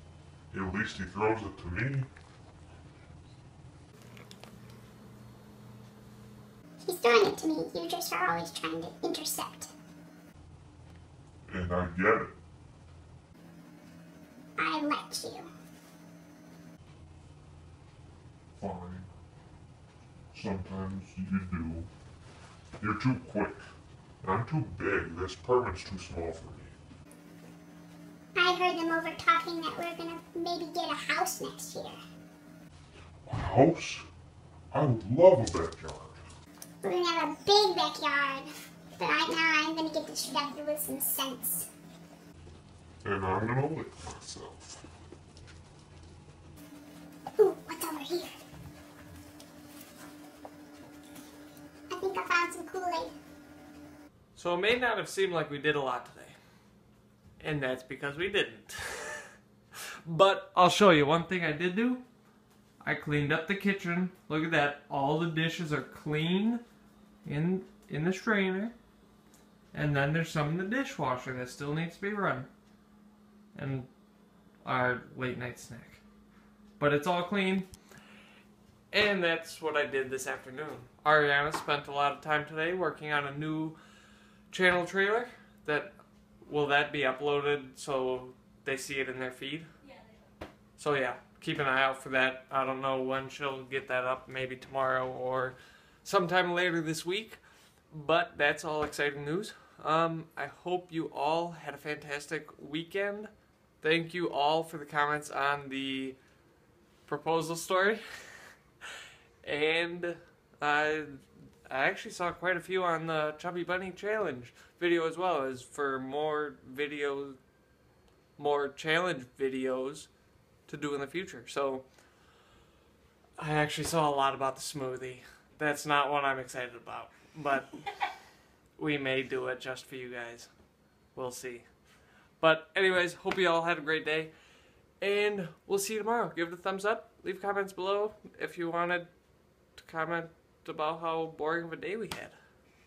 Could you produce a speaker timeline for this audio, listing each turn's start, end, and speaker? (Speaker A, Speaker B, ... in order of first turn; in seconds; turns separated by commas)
Speaker A: 0.5-2.1, Speaker B: 6.8-9.7, Speaker A: 11.5-12.3, Speaker B: 14.6-15.5, Speaker A: 18.6-19.1, Speaker A: 20.3-21.9, Speaker A: 22.8-23.7, Speaker A: 24.2-26.8, Speaker B: 28.3-31.9, Speaker A: 33.2-34.0, Speaker A: 34.7-36.2, Speaker B: 36.8-41.7, Speaker A: 43.0-44.8, Speaker B: 47.4-48.3, Speaker B: 51.9-53.1, Speaker C: 54.4-56.4, Speaker C: 57.4-59.3, Speaker C: 60.0-62.0, Speaker C: 62.8-66.6, Speaker C: 67.2-68.7, Speaker C: 69.7-72.5, Speaker C: 73.5-73.9, Speaker C: 74.6-76.0, Speaker C: 76.8-77.7, Speaker C: 78.9-83.8, Speaker C: 84.5-89.7, Speaker C: 90.8-106.2, Speaker C: 107.1-108.5, Speaker C: 109.4-117.4, Speaker C: 118.4-120.1, Speaker C: 120.7-121.9, Speaker C: 123.4-127.8, Speaker C: 128.8-130.5, Speaker C: 131.1-131.7, Speaker C: 132.4-134.3, Speaker C: 135.0-139.1, Speaker C: 139.8-142.3